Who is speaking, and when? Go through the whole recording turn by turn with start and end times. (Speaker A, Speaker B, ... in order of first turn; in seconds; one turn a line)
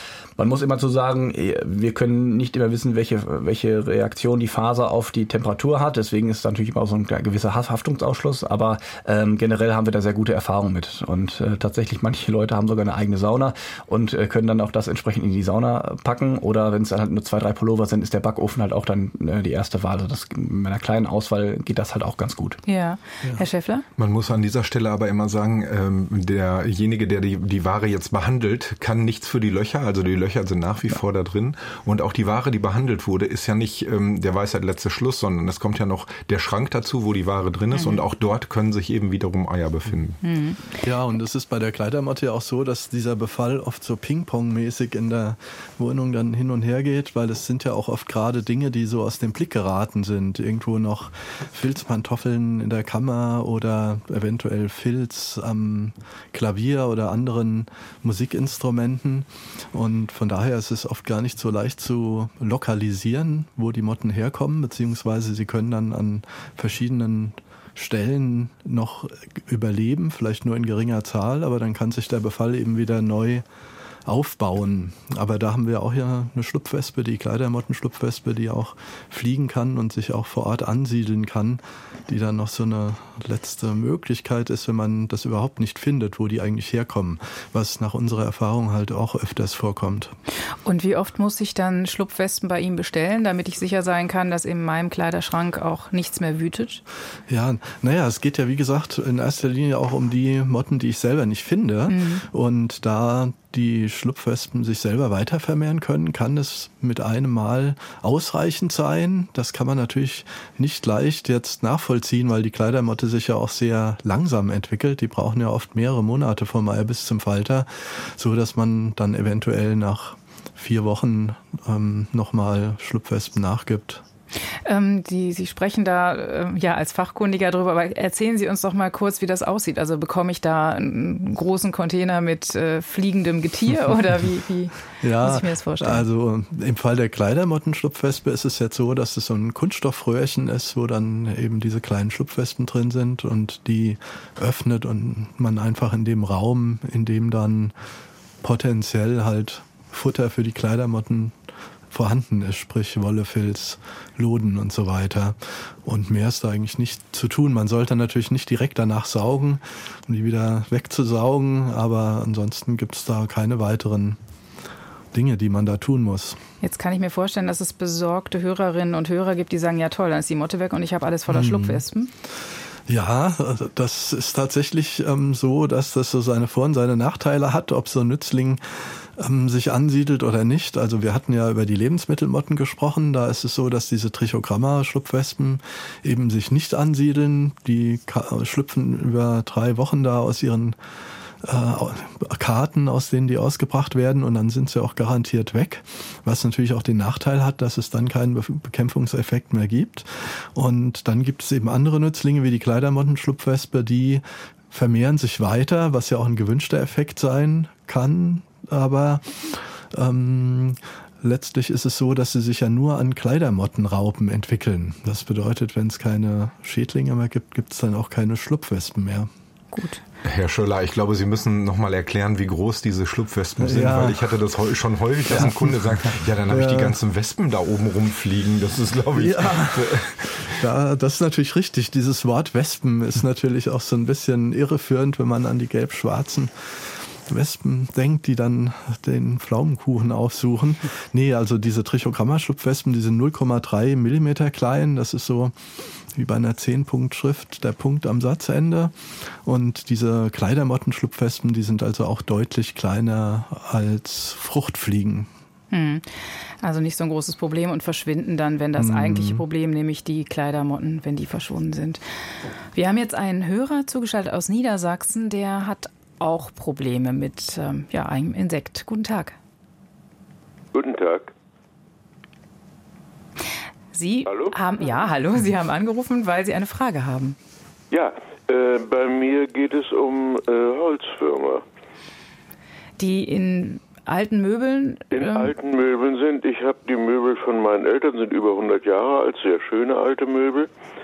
Speaker A: 0.4-22.6
Speaker B: 22.7-23.8
Speaker C: 24.0-40.2
Speaker B: 37.7-38.0
Speaker B: 40.2-40.7
Speaker D: 40.8-73.4
Speaker D: 74.0-90.1
Speaker B: 90.6-96.8
Speaker D: 97.3-124.0
Speaker B: 101.9-102.2
Speaker B: 124.6-136.1
Speaker D: 135.0-147.7
Speaker D: 148.4-151.3
Speaker D: 151.9-164.2
Speaker D: 165.1-166.4
Speaker B: 166.6-172.1
Speaker D: 171.3-171.8
Speaker D: 172.9-190.8
Speaker D: 191.4-219.3
Speaker B: 219.7-220.0
Speaker C: 220.2-230.5
Speaker D: 223.6-224.3
Speaker D: 225.3-227.0
Speaker D: 229.1-245.5
Speaker D: 246.1-255.3
Speaker B: 255.7-256.0
Speaker B: 256.6-262.0
Speaker D: 258.8-259.4
Speaker B: 262.7-269.4
Speaker E: 270.7-271.3
Speaker B: 273.9-277.4
Speaker E: 274.2-274.6
Speaker E: 277.9-281.6
Speaker B: 283.0-285.5
Speaker E: 285.1-290.7